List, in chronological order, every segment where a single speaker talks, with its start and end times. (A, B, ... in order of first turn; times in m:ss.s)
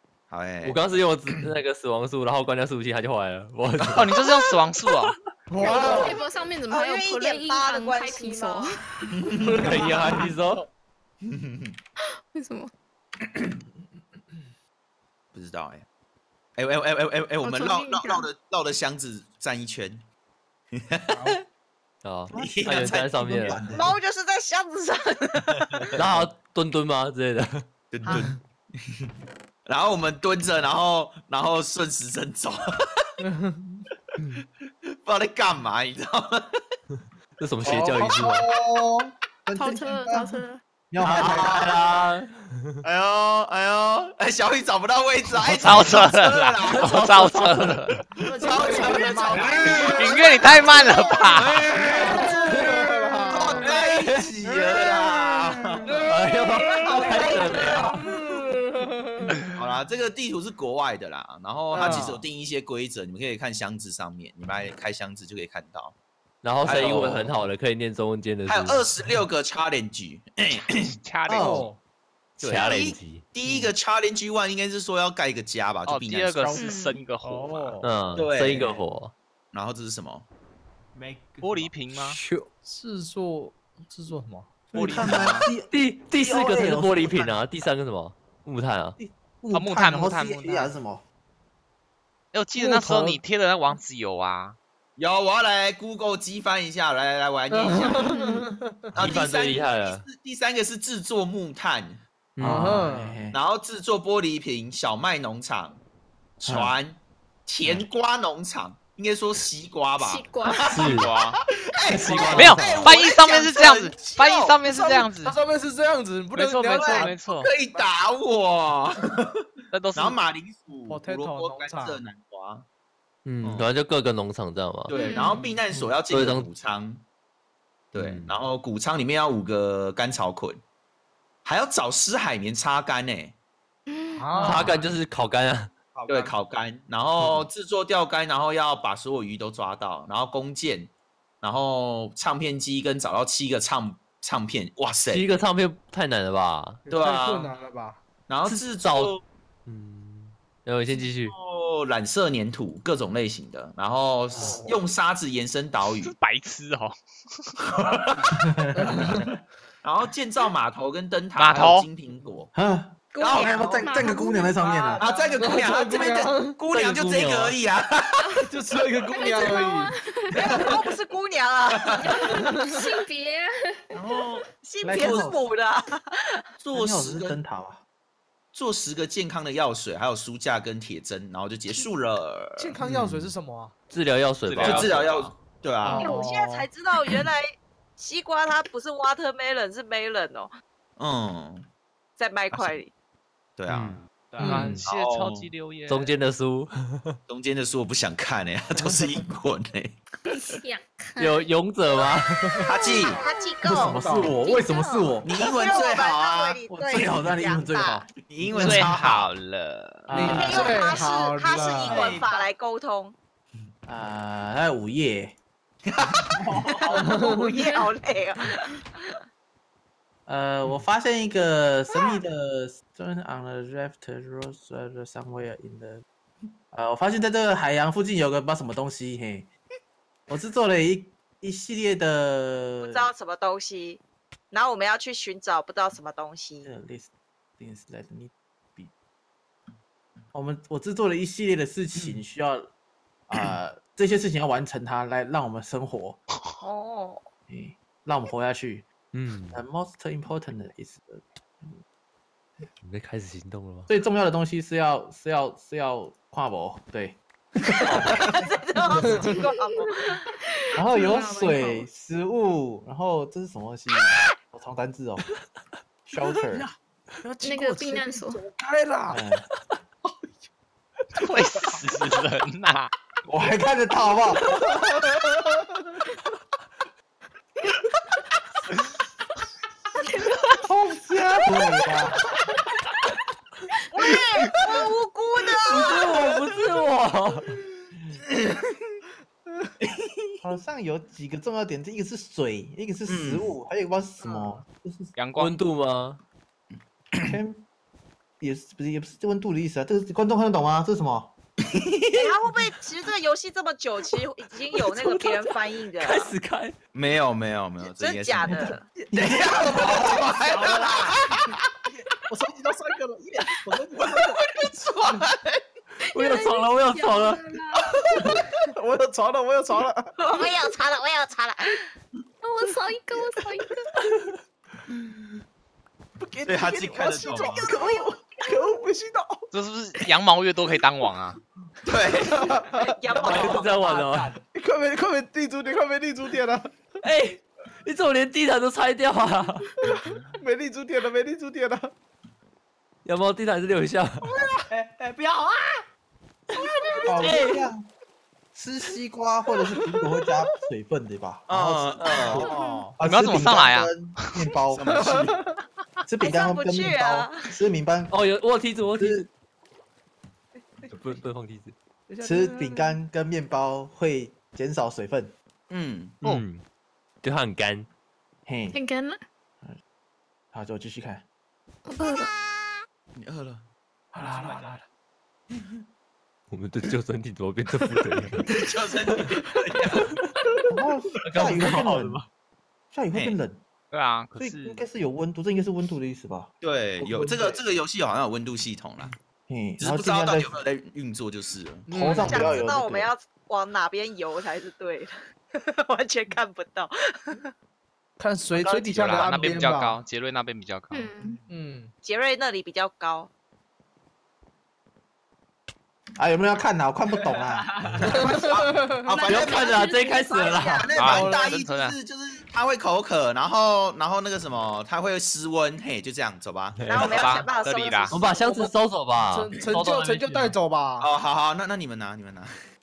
0:00.3-0:00.8 A
0:00.6-0:04.2 B
0:03.9-0:05.2 C
0:05.5-0:06.1 D
0:05.6-0:09.0 E
0:06.7-0:08.7 F
0:09.2-0:10.2 A
0:09.4-0:10.2 D
0:09.6-0:10.7 B
0:11.3-0:11.8 A
0:12.3-0:12.7 E
0:15.3-0:15.9 A
0:16.6-0:20.0 A
0:17.4-0:18.3 E
0:20.8-0:21.4 A
0:22.0-0:23.6 B
0:22.3-0:23.9 G
0:22.4-0:23.8 A
0:23.7-0:25.7 F
0:25.9-0:27.6 B
0:27.9-0:28.4 A
0:29.7-0:32.7 A
0:33.2-0:33.8 D
0:34.9-0:36.5 A
0:37.4-0:38.5 B
0:37.6-0:38.4 G
0:39.5-0:41.9 G
0:39.6-0:40.6 E
0:41.0-0:42.8 B
0:41.2-0:41.8 A
0:42.8-0:46.9 A
0:45.5-0:48.0 C
0:46.7-0:47.8 B
0:48.2-0:50.2 H
0:48.2-0:50.3 A
0:49.6-0:51.7 C
0:51.4-0:52.2 A
0:52.0-0:53.8 D
0:53.3-0:56.0 A
0:53.9-0:54.3 B
0:56.0-0:58.0 B
0:56.9-0:57.3 F
0:57.0-0:57.9 H
0:58.0-0:59.2 D
0:59.6-1:06.0 A
1:01.7-1:02.2 D
1:06.4-1:08.9 B
1:06.6-1:07.4 A
1:08.5-1:10.7 A
1:10.7-1:11.7 C
1:11.3-1:11.7 G
1:11.3-1:11.8 D
1:12.4-1:13.3 B
1:12.4-1:16.6 A
1:15.9-1:17.8 C
1:16.5-1:17.1 E
1:16.6-1:16.8 G
1:17.2-1:17.9 D
1:17.8-1:19.1 B
1:18.2-1:18.8 A
1:19.5-1:20.3 A
1:21.0-1:21.7 H
1:21.4-1:22.2 C
1:21.9-1:22.5 B
1:22.6-1:24.6 D
1:24.7-1:27.4 G
1:24.7-1:25.5 C
1:25.7-1:29.0 B
1:29.0-1:31.0 G
1:29.5-1:30.8 C
1:32.3-1:34.6 C
1:32.6-1:33.2 D
1:35.0-1:38.2 A
1:37.5-1:38.9 D
1:38.0-1:38.4 E
1:39.0-1:42.0 A
1:39.0-1:40.1 B
1:42.4-1:43.4 G
1:42.4-1:42.8 B
1:42.4-1:43.2 D
1:43.3-1:45.8 A
1:46.4-1:55.1 A
1:46.4-1:46.8 G
1:50.0-1:50.7 E
1:50.7-1:51.1 B
1:50.9-1:51.4 C
1:51.9-1:53.0 B
1:52.4-1:55.4 C
1:55.1-1:57.1 D
1:56.3-1:57.5 C
1:56.7-1:59.3 A
1:59.7-2:00.2 C
1:59.9-2:02.7 A
2:00.9-2:02.0 D
2:03.2-2:05.1 B
2:03.4-2:03.7 A
2:04.9-2:07.0 A
2:04.9-2:05.4 E
2:05.7-2:06.5 B
2:07.9-2:10.6 A
2:08.0-2:08.4 B
2:11.4-2:13.4 A
2:13.9-2:14.6 E
2:14.2-2:15.0 D
2:14.4-2:15.7 B
2:15.9-2:16.3 H
2:16.1-2:25.3 A
2:17.2-2:17.5 B
2:25.1-2:26.9 B
2:26.9-2:28.0 D
2:26.9-2:27.5 A
2:28.3-2:29.2 A
2:28.4-2:29.2 B
2:29.7-2:31.4 B
2:31.2-2:36.1 A
2:34.4-2:34.6 B
2:36.0-2:37.0 C
2:37.8-2:38.2 A
2:38.5-2:38.9 G
2:39.8-2:42.5 A
2:41.4-2:41.9 C
2:42.5-2:45.0 G
2:43.1-2:43.7 F
2:43.2-2:43.6 A
2:43.4-2:45.0 E
2:45.0-2:48.4 A
2:45.3-2:46.6 D
2:46.7-2:47.6 B
2:48.5-2:49.9 D
2:49.0-2:50.6 E
2:50.3-2:52.3 F
2:51.9-2:53.9 E
2:52.5-2:52.8 D
2:53.9-2:54.4 A
2:54.6-2:55.8 F
2:54.8-2:55.4 G
2:56.6-2:57.4 A
2:56.7-2:57.8 G
2:58.5-3:02.8 A
3:02.6-3:03.7 D
3:03.9-3:05.0 B
3:04.5-3:05.3 C
3:04.6-3:06.1 A
3:05.8-3:06.5 D
3:06.0-3:07.4 F
3:08.0-3:10.5 F
3:11.0-3:11.7 A
3:12.2-3:12.9 F
3:13.6-3:14.0 A
3:13.7-3:14.8 B
3:14.2-3:14.8 H
3:14.4-3:16.1 C
3:14.8-3:15.5 A
3:15.9-3:17.2 B
3:17.3-3:20.0 A
3:20.3-3:21.4 E
3:21.2-3:22.6 B
3:22.6-3:25.2 E
3:22.6-3:23.2 A
3:23.0-3:24.2 F
3:23.6-3:25.3 G
3:23.7-3:24.3 D
3:25.2-3:26.6 A
3:25.4-3:28.0 F
3:26.7-3:28.9 G
3:28.3-3:29.3 A
3:28.6-3:30.4 C
3:30.1-3:30.9 G
3:30.1-3:32.2 D
3:30.4-3:33.2 F
3:31.5-3:32.5 A
3:33.9-3:35.3 G
3:35.9-3:37.1 A
3:36.4-3:36.8 G
3:36.9-3:39.1 F
3:37.0-3:37.5 D
3:40.3-3:46.0 G
3:41.9-3:42.2 F
3:46.7-3:49.5 G
3:50.3-3:53.1 G
3:52.8-3:56.7 F
3:56.6-3:58.9 G
4:00.3-4:02.7 G
4:03.3-4:06.2 G
4:06.6-4:07.2 F
4:07.5-4:08.9 G
4:09.1-4:09.6 B
4:09.5-4:11.8 G
4:12.8-4:13.9 B
4:13.9-4:17.2 G
4:17.8-4:18.5 G
4:17.8-4:20.2 F
4:19.0-4:19.4 D
4:20.3-4:21.9 E
4:20.8-4:25.2 G
4:26.1-4:26.7 G
4:27.2-4:29.2 D
4:27.4-4:28.4 E
4:29.1-4:29.4 G
4:31.2-4:32.9 C
4:33.3-4:34.5 G
4:35.1-4:35.4 D
4:40.6-4:42.2 G
4:43.9-4:46.0 F
4:45.7-4:47.6 B
4:48.3-4:48.9 A
4:49.9-4:50.3 A
4:50.4-4:55.1 G
4:53.1-4:53.5 A
4:54.2-4:54.6 D
4:55.2-4:55.6 C
4:55.4-4:56.2 B
4:57.2-4:57.6 G
4:58.4-5:01.3 G
5:01.7-5:02.3 A
5:02.1-5:06.3 F
5:04.9-5:06.8 B
5:06.9-5:11.5 A
5:07.8-5:08.8 F
5:08.4-5:10.3 G
5:10.1-5:11.1 H
5:11.9-5:13.9 D
5:13.9-5:15.6 A
5:16.1-5:17.4 B
5:16.1-5:18.0 E
5:18.7-5:20.1 D
5:20.2-5:21.8 F
5:22.4-5:23.9 E
5:26.2-5:29.5 D
5:26.4-5:27.7 A
5:27.5-5:28.0 H
5:27.5-5:28.1 F
5:29.5-5:31.4 C
5:31.9-5:32.4 A
5:32.3-5:33.0 D
5:32.7-5:33.9 F
5:33.1-5:34.4 H
5:33.2-5:34.4 B
5:34.5-5:36.7 D
5:37.0-5:39.7 B
5:39.8-5:41.9 D
5:40.0-5:40.3 A
5:43.0-5:44.3 B
5:44.7-5:45.8 H
5:47.0-5:47.9 G
5:47.2-5:47.6 B
5:48.6-5:55.2 G
5:51.5-5:52.5 A
5:52.0-5:52.5 B
5:52.3-5:52.9 H
5:53.0-5:54.0 C
5:54.7-5:55.3 A
5:54.8-5:55.6 D
5:56.1-5:58.1 G
5:56.2-5:57.5 F
5:58.1-5:59.3 B
5:59.0-5:59.2 G
6:00.9-6:01.7 B
6:02.1-6:03.0 D
6:02.2-6:05.3 G
6:05.7-6:06.2 A
6:06.2-6:06.6 B
6:07.2-6:07.9 B
6:08.5-6:08.8 G
6:08.7-6:09.2 E
6:10.5-6:11.2 G
6:13.2-6:13.7 A
6:14.1-6:14.8 G
6:14.2-6:14.8 H
6:16.5-6:18.5 B
6:18.5-6:20.0 A
6:20.7-6:22.2 G
6:21.2-6:22.3 B
6:22.9-6:23.6 G
6:23.1-6:23.4 A
6:23.9-6:24.8 C
6:24.4-6:26.5 G
6:26.6-6:29.1 A
6:27.0-6:27.6 G
6:29.5-6:30.6 G
6:29.8-6:31.9 A
6:31.9-6:32.4 D
6:31.9-6:33.1 G
6:32.2-6:37.4 F
6:38.2-6:40.0 D
6:38.5-6:41.1 C
6:40.9-6:41.4 E
6:41.5-6:41.9 D
6:42.0-6:43.3 F
6:46.2-6:47.7 G
6:47.8-6:48.6 H
6:48.1-6:49.6 A
6:48.1-6:49.0 D
6:49.1-6:50.7 E
6:49.2-6:51.1 B
6:50.4-6:56.8 A
6:51.0-6:52.0 C
6:51.1-6:51.5 D
6:56.8-6:57.3 B
6:56.9-6:58.7 F
6:57.0-6:58.1 C
6:58.1-7:00.6 B
6:59.2-7:01.1 D
7:01.0-7:02.5 A